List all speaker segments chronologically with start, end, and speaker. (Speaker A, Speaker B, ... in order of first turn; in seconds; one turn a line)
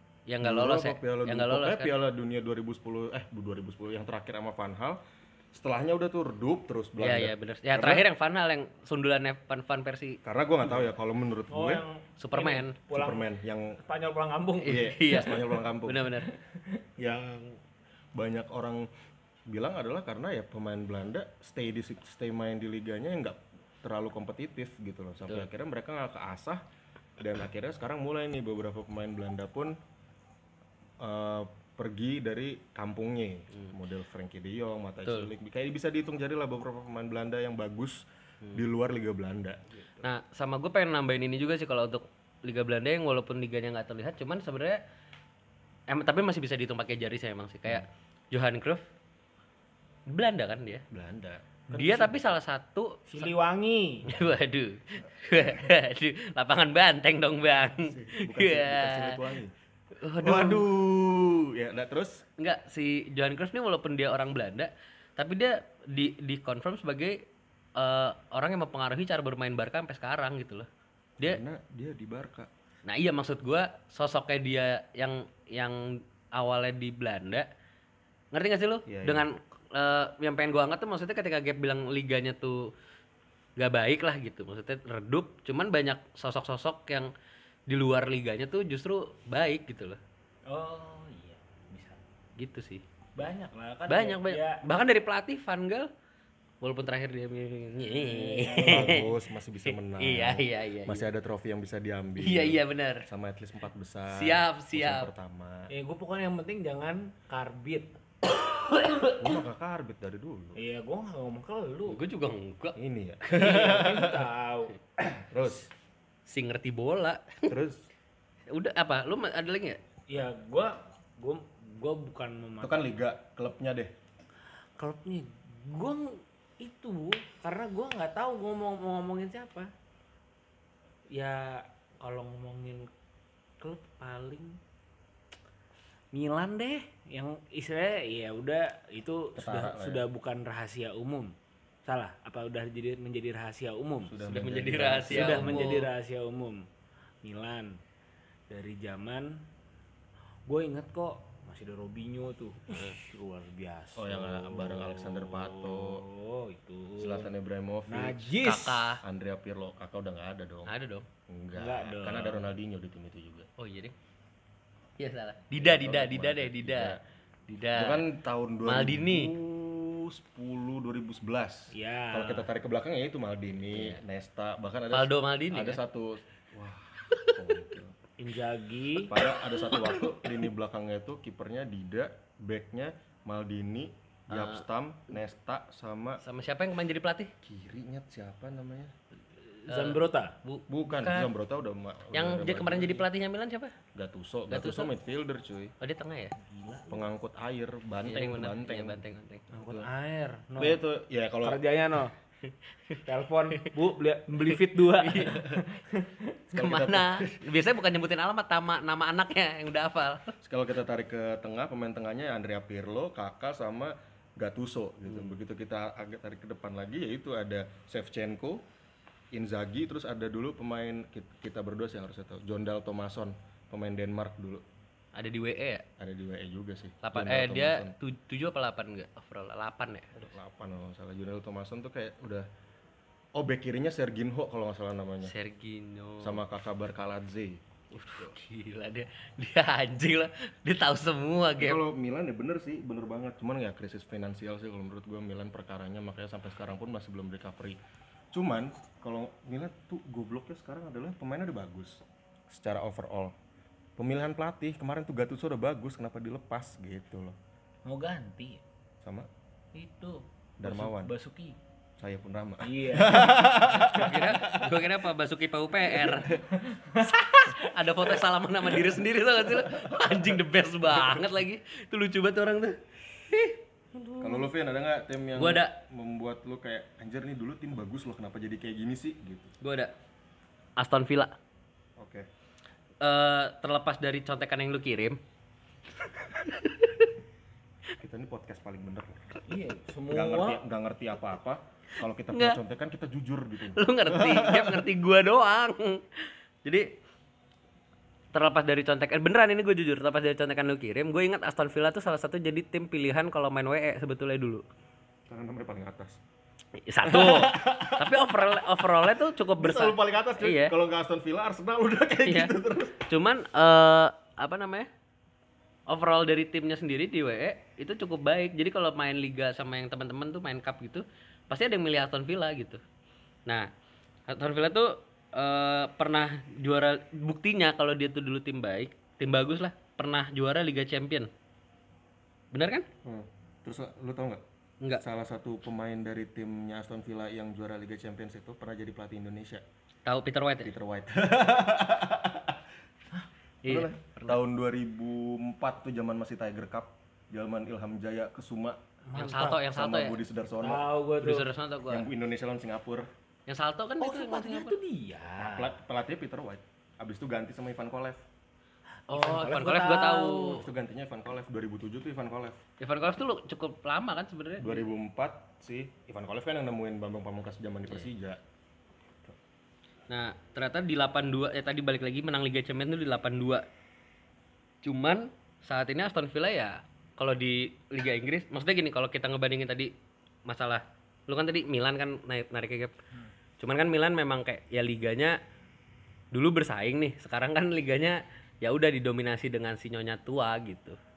Speaker A: 0.3-1.9
Speaker B: 0.4-5.0
Speaker B: 5.5-8.1
Speaker A: 7.0-10.2
Speaker B: 10.2-11.8
Speaker C: 11.5-15.4
Speaker A: 12.2-12.8
Speaker B: 12.9-13.8
Speaker A: 14.6-16.3
Speaker B: 14.7-16.1
Speaker C: 16.3-16.8
Speaker B: 17.0-17.6
Speaker B: 18.1-18.9
Speaker B: 19.5-26.6
Speaker B: 27.2-29.8
Speaker B: 31.0-38.0
Speaker B: 38.5-40.1
Speaker A: 40.0-44.8
Speaker A: 45.9-48.9
Speaker A: 50.1-50.8
Speaker B: 50.9-52.2
Speaker A: 51.7-53.3
Speaker C: 53.1-54.1
Speaker A: 54.1-59.2
Speaker B: 55.3-55.6
Speaker B: 57.8-59.5
Speaker A: 60.0-60.6
Speaker B: 60.2-62.2
Speaker A: 62.4-67.2
Speaker A: 67.8-70.7
Speaker B: 71.2-72.5
Speaker A: 72.8-77.5
Speaker A: 78.3-82.7
Speaker B: 78.9-79.3
Speaker A: 83.6-87.1
Speaker A: 87.7-90.0
Speaker C: 90.5-92.0
Speaker A: 92.4-92.8
Speaker C: 93.2-94.7
Speaker A: 93.9-95.9
Speaker A: 96.6-99.1
Speaker C: 97.8-99.1
Speaker B: 98.6-105.7
Speaker A: 99.7-101.1
Speaker A: 102.2-103.1
Speaker A: 104.1-105.1
Speaker C: 105.7-107.9
Speaker A: 108.7-109.2
Speaker B: 109.2-110.6
Speaker C: 110.6-112.0
Speaker A: 111.9-112.8
Speaker B: 112.8-114.3
Speaker C: 113.3-114.8
Speaker B: 115.1-115.7
Speaker A: 116.3-117.5
Speaker B: 117.5-117.8
Speaker A: 118.5-119.8
Speaker C: 120.1-122.9
Speaker B: 122.6-123.9
Speaker C: 124.8-129.7
Speaker C: 131.1-132.9
Speaker C: 133.6-134.6
Speaker C: 136.1-141.3
Speaker B: 139.3-140.1
Speaker C: 141.8-144.2
Speaker B: 144.1-145.7
Speaker A: 144.3-145.9
Speaker C: 145.1-146.7
Speaker C: 147.2-147.8
Speaker C: 148.5-149.4
Speaker C: 150.5-157.3
Speaker B: 154.0-156.0
Speaker B: 157.0-158.4
Speaker C: 157.9-158.9
Speaker A: 158.4-159.0
Speaker B: 159.0-160.7
Speaker A: 160.7-161.1
Speaker B: 161.3-163.5
Speaker C: 161.6-162.5
Speaker A: 163.6-163.9
Speaker A: 165.0-167.0
Speaker B: 165.6-167.0
Speaker A: 167.5-168.0
Speaker B: 167.8-178.0
Speaker A: 168.7-169.3
Speaker C: 171.7-172.5
Speaker A: 173.7-174.0
Speaker A: 174.9-175.8
Speaker A: 177.1-177.6
Speaker C: 178.2-179.1
Speaker B: 179.0-186.2
Speaker A: 179.2-180.3
Speaker A: 184.3-184.6
Speaker A: 186.2-187.3
Speaker B: 187.4-188.9
Speaker C: 189.6-190.4
Speaker A: 189.7-191.3
Speaker B: 190.7-193.1
Speaker A: 192.1-193.8
Speaker B: 193.9-195.7
Speaker A: 194.5-194.9
Speaker A: 195.8-196.4
Speaker C: 196.4-197.1
Speaker B: 196.9-199.0
Speaker A: 198.1-199.5
Speaker C: 199.5-200.8
Speaker B: 199.5-199.9
Speaker B: 200.6-201.6
Speaker C: 201.4-202.2
Speaker A: 202.5-203.0
Speaker C: 203.1-206.5
Speaker A: 204.5-205.4
Speaker B: 206.5-207.4
Speaker A: 206.6-210.4
Speaker B: 210.4-218.6
Speaker A: 215.1-215.3
Speaker B: 219.3-224.6
Speaker A: 225.1-225.8
Speaker B: 226.0-227.9
Speaker A: 227.0-230.3
Speaker B: 230.2-232.5
Speaker B: 233.4-235.3
Speaker A: 235.2-236.4
Speaker B: 236.2-238.3
Speaker A: 237.9-241.8
Speaker B: 241.6-247.8
Speaker B: 248.3-253.3
Speaker B: 254.0-257.4
Speaker C: 257.9-258.6
Speaker B: 259.0-259.3
Speaker C: 259.7-261.6
Speaker B: 260.6-261.1
Speaker B: 262.0-265.0
Speaker C: 262.6-264.0
Speaker A: 263.9-266.4
Speaker B: 266.0-266.4
Speaker C: 266.6-267.1
Speaker A: 267.0-274.5
Speaker B: 269.4-270.4
Speaker B: 274.2-279.5
Speaker A: 275.4-275.8
Speaker A: 279.6-279.9
Speaker A: 280.8-281.4
Speaker B: 282.0-282.3
Speaker A: 283.0-285.2
Speaker A: 286.0-287.1
Speaker B: 288.0-289.4
Speaker C: 289.5-290.6
Speaker B: 290.1-294.8
Speaker A: 292.3-292.6
Speaker A: 293.8-296.9
Speaker A: 298.3-304.6
Speaker B: 305.3-306.2
Speaker A: 306.8-310.7
Speaker B: 307.1-308.6
Speaker B: 309.6-313.0
Speaker A: 312.3-312.5
Speaker A: 313.1-314.9
Speaker A: 315.9-322.8
Speaker A: 324.3-331.3
Speaker A: 332.5-332.9
Speaker B: 333.1-334.4
Speaker B: 334.9-339.6
Speaker A: 340.1-340.7
Speaker B: 340.6-342.6
Speaker A: 343.6-344.4
Speaker B: 343.7-348.8
Speaker C: 349.1-349.6
Speaker A: 349.1-350.2
Speaker B: 349.7-350.8
Speaker C: 350.6-351.5
Speaker A: 351.2-352.1
Speaker B: 351.9-353.1
Speaker A: 353.5-354.8
Speaker C: 354.0-355.7
Speaker B: 355.4-358.2
Speaker C: 359.1-360.6
Speaker A: 359.1-360.6
Speaker B: 360.5-362.6
Speaker A: 362.8-364.8
Speaker B: 364.6-368.4
Speaker A: 370.1-373.6
Speaker A: 374.8-379.9
Speaker A: 380.5-383.0
Speaker A: 383.6-385.4
Speaker A: 386.3-391.0